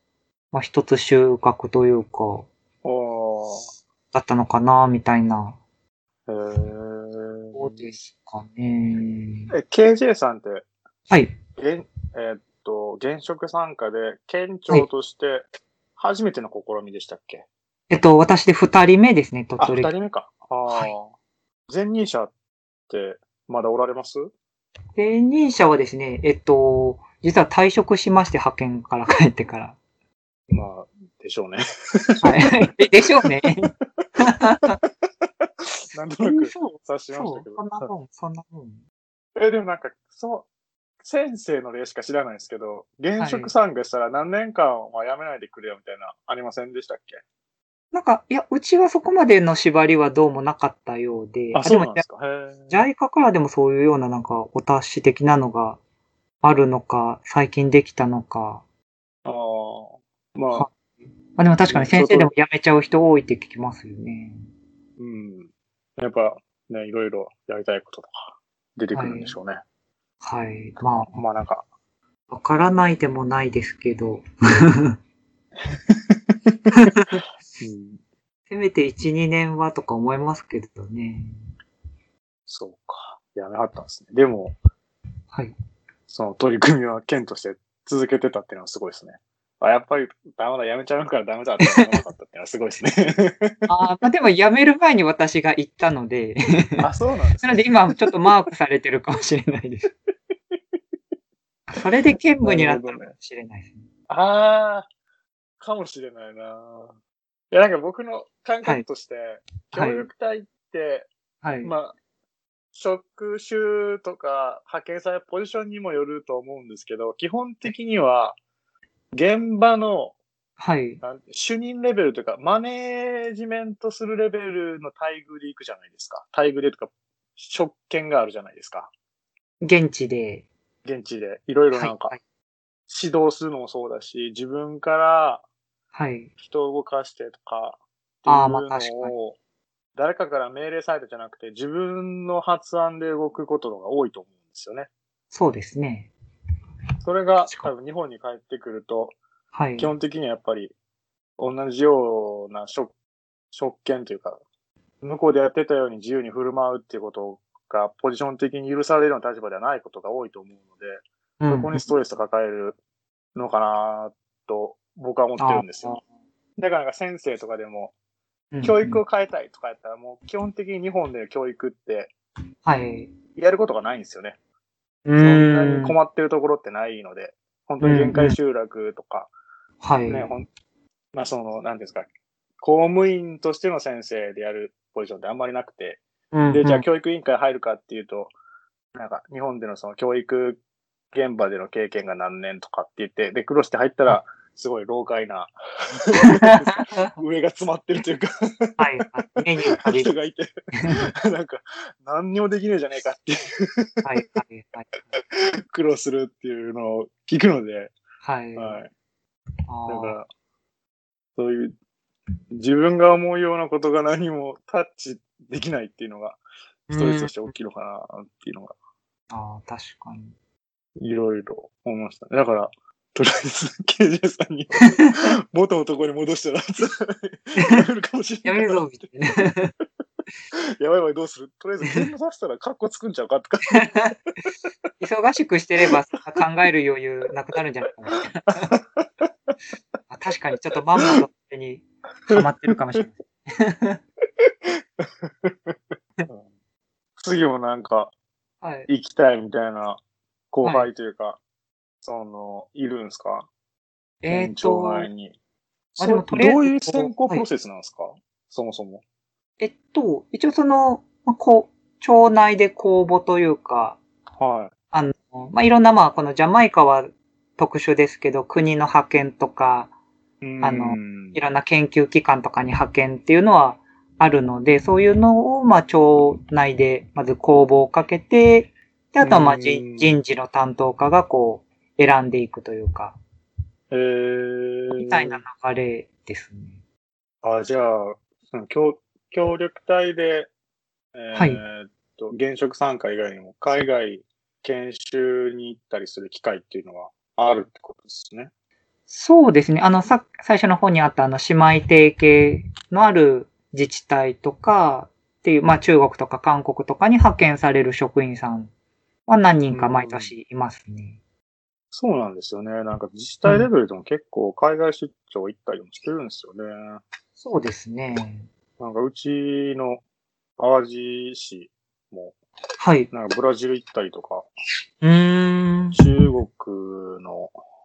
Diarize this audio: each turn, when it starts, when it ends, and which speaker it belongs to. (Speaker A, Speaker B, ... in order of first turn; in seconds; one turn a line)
Speaker A: 0.5-2.5
Speaker B: 2.8-3.7
Speaker A: 4.1-5.6
Speaker B: 6.3-7.9
Speaker A: 7.5-9.5
Speaker B: 9.5-10.7
Speaker A: 11.1-11.3
Speaker B: 11.6-17.4
Speaker A: 17.9-19.9
Speaker B: 19.6-21.1
Speaker B: 21.7-22.3
Speaker B: 22.9-24.3
Speaker A: 24.9-29.8
Speaker B: 30.5-33.4
Speaker A: 32.2-34.8
Speaker B: 35.2-37.9
Speaker A: 36.2-38.8
Speaker B: 39.4-40.5
Speaker B: 41.0-47.2
Speaker A: 43.2-43.5
Speaker A: 47.9-52.0
Speaker B: 51.5-52.8
Speaker A: 52.7-55.8
Speaker A: 56.4-58.6
Speaker B: 59.2-60.7
Speaker A: 61.3-64.4
Speaker B: 61.7-62.3
Speaker B: 65.0-69.6
Speaker A: 68.9-69.3
Speaker A: 70.2-71.2
Speaker B: 71.0-71.6
Speaker A: 72.3-75.0
Speaker B: 75.7-76.3
Speaker A: 76.7-77.2
Speaker B: 77.6-78.0
Speaker A: 78.5-81.3
Speaker B: 82.5-84.5
Speaker B: 86.1-93.6
Speaker A: 91.6-91.9
Speaker A: 93.7-96.8
Speaker B: 96.8-98.1
Speaker A: 97.4-99.9
Speaker A: 101.7-103.8
Speaker B: 102.4-103.1
Speaker B: 104.1-104.9
Speaker B: 105.6-106.9
Speaker B: 107.5-111.1
Speaker A: 109.7-110.1
Speaker A: 111.4-111.7
Speaker B: 111.6-111.9
Speaker B: 112.7-118.4
Speaker B: 119.1-120.1
Speaker A: 120.6-121.0
Speaker B: 121.0-128.9
Speaker A: 129.6-130.5
Speaker B: 130.8-132.2
Speaker A: 131.7-132.2
Speaker B: 132.9-135.4
Speaker A: 135.9-136.3
Speaker B: 136.4-139.4
Speaker A: 138.3-139.1
Speaker B: 139.9-144.9
Speaker A: 145.3-146.1
Speaker B: 147.0-149.2
Speaker A: 147.4-147.7
Speaker A: 149.5-149.9
Speaker B: 149.8-150.7
Speaker B: 151.4-152.9
Speaker B: 153.5-154.4
Speaker B: 155.0-162.8
Speaker A: 161.4-161.8
Speaker B: 163.3-166.0
Speaker A: 165.4-166.0
Speaker B: 166.6-167.9
Speaker A: 168.5-169.0
Speaker B: 168.6-172.1
Speaker A: 172.6-173.1
Speaker B: 173.3-174.4
Speaker A: 175.1-175.9
Speaker B: 175.2-179.3
Speaker A: 177.8-178.4
Speaker A: 179.8-180.3
Speaker B: 180.1-180.5
Speaker B: 181.1-182.1
Speaker B: 182.6-188.3
Speaker A: 186.3-186.8
Speaker B: 188.9-190.6
Speaker B: 191.1-198.9
Speaker A: 196.2-197.1
Speaker A: 198.8-200.1
Speaker B: 199.7-204.1
Speaker A: 200.8-201.0
Speaker A: 204.0-204.9
Speaker B: 205.1-207.9
Speaker A: 208.2-208.8
Speaker B: 208.6-208.9
Speaker A: 209.7-210.2
Speaker B: 209.9-210.3
Speaker B: 211.3-211.7
Speaker B: 212.5-216.4
Speaker A: 216.9-217.5
Speaker B: 216.9-218.7
Speaker A: 219.3-220.3
Speaker B: 221.0-228.8
Speaker A: 224.9-225.1
Speaker A: 227.6-227.8
Speaker A: 228.4-229.7
Speaker B: 230.5-233.9
Speaker A: 233.7-234.1
Speaker A: 235.0-238.7
Speaker B: 238.7-239.3
Speaker A: 240.1-244.0
Speaker B: 242.3-243.0
Speaker B: 244.4-245.8
Speaker B: 247.2-248.1
Speaker A: 248.6-248.9
Speaker B: 248.9-250.0
Speaker B: 250.5-251.4
Speaker A: 250.6-250.9
Speaker B: 252.0-253.5
Speaker A: 254.2-255.1
Speaker B: 254.3-255.3
Speaker B: 255.9-259.0
Speaker A: 256.0-257.4
Speaker A: 259.6-264.0
Speaker B: 264.4-264.7
Speaker A: 264.9-269.9
Speaker B: 270.4-271.4
Speaker A: 270.6-283.2
Speaker B: 279.2-280.1
Speaker B: 283.9-285.4
Speaker A: 284.9-286.8
Speaker B: 287.4-290.5
Speaker B: 291.1-298.5
Speaker A: 291.3-291.6
Speaker A: 299.1-308.7
Speaker A: 309.2-311.2
Speaker B: 309.7-310.3
Speaker B: 311.9-317.0
Speaker A: 317.4-318.5
Speaker B: 318.8-320.0
Speaker B: 320.6-322.4
Speaker A: 322.8-323.1
Speaker B: 323.1-324.4
Speaker A: 325.0-326.0
Speaker B: 325.9-327.5